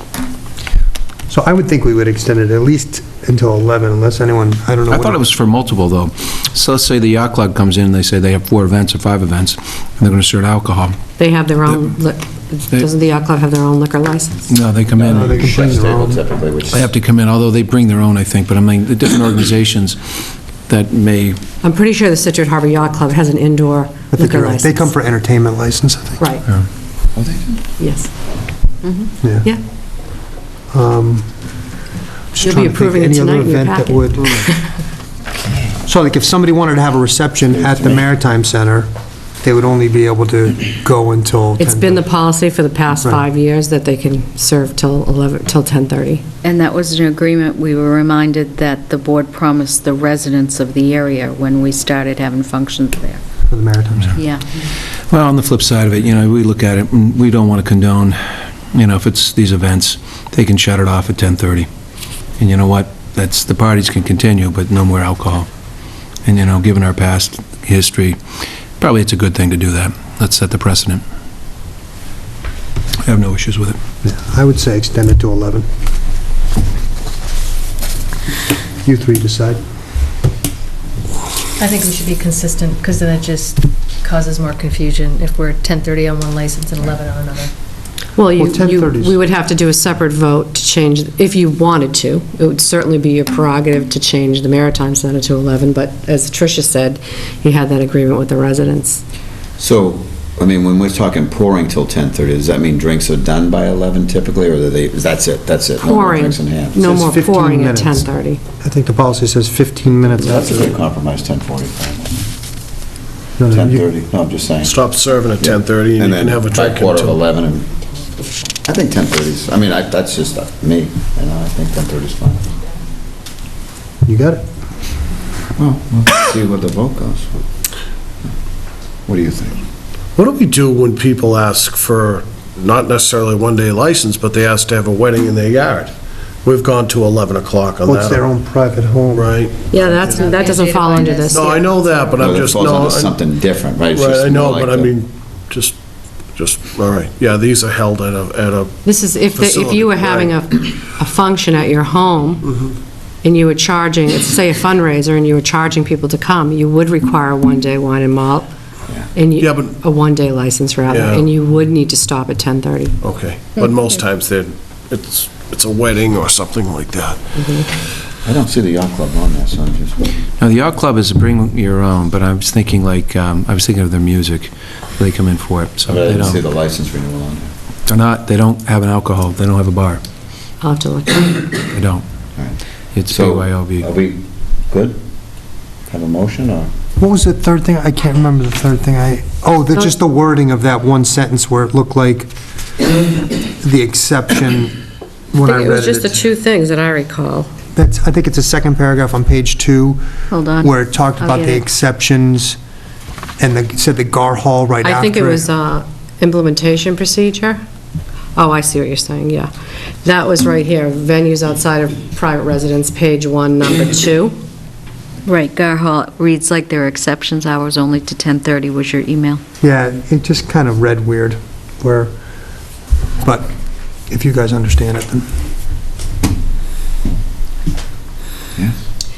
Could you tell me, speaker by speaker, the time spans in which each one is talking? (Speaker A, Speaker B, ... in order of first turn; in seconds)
Speaker A: 1.3-5.2, 15.1-16.2, 24.1-26.2, 29.2-29.5, 30.7-31.3, 32.3-34.5, 35.9-38.9, 39.4-42.0, 53.5-54.2, 74.0-75.7, 78.8-79.6, 88.4-89.2, 106.8-108.1, 108.6-110.8, 113.4-113.9, 124.0-124.4, 137.8-139.3, 187.0-192.3, 193.6-194.8, 195.3-196.2, 197.8-200.0, 200.6-202.6, 203.4-205.5, 219.6-222.1, 223.2-223.5, 224.1-225.3
Speaker B: 4.9-11.0, 14.5-15.5, 16.7-20.2, 20.7-21.4, 55.1-61.7, 62.4-65.5, 66.2-68.2, 68.8-71.0, 73.0-73.8, 170.4-176.4, 177.9-180.0, 181.7-182.0, 182.9-183.9
Speaker C: 11.2-14.4, 21.6-24.9, 27.8-28.1, 32.4-34.7, 41.6-46.2, 88.2-99.0, 105.8-108.4, 139.7-141.7, 148.8-152.4, 153.2-158.5, 159.1-162.9, 167.4-167.7, 180.6-181.4, 195.4-197.5, 204.8-207.6, 208.4-209.5, 210.0-214.3
Speaker D: 15.1-16.9, 27.2-27.6, 37.5-38.1, 99.6-106.9, 110.1-112.2, 113.5-114.8, 115.4-117.7, 118.6-122.5, 125.6-127.4, 129.1-129.6, 142.1-144.9, 168.2-170.0, 175.9-177.5, 182.4-185.0, 185.9-186.7
Speaker E: 46.4-53.2, 54.2-54.4, 200.3-201.6, 215.2-219.4
Speaker F: 81.6-87.5, 140.0-142.3
Speaker G: 114.6-117.2, 130.2-135.9, 136.4-138.2, 139.1-140.2, 141.3-143.2, 143.9-145.8, 146.3-148.8, 149.3-150.4, 159.4-159.7, 160.9-161.3, 163.0-167.2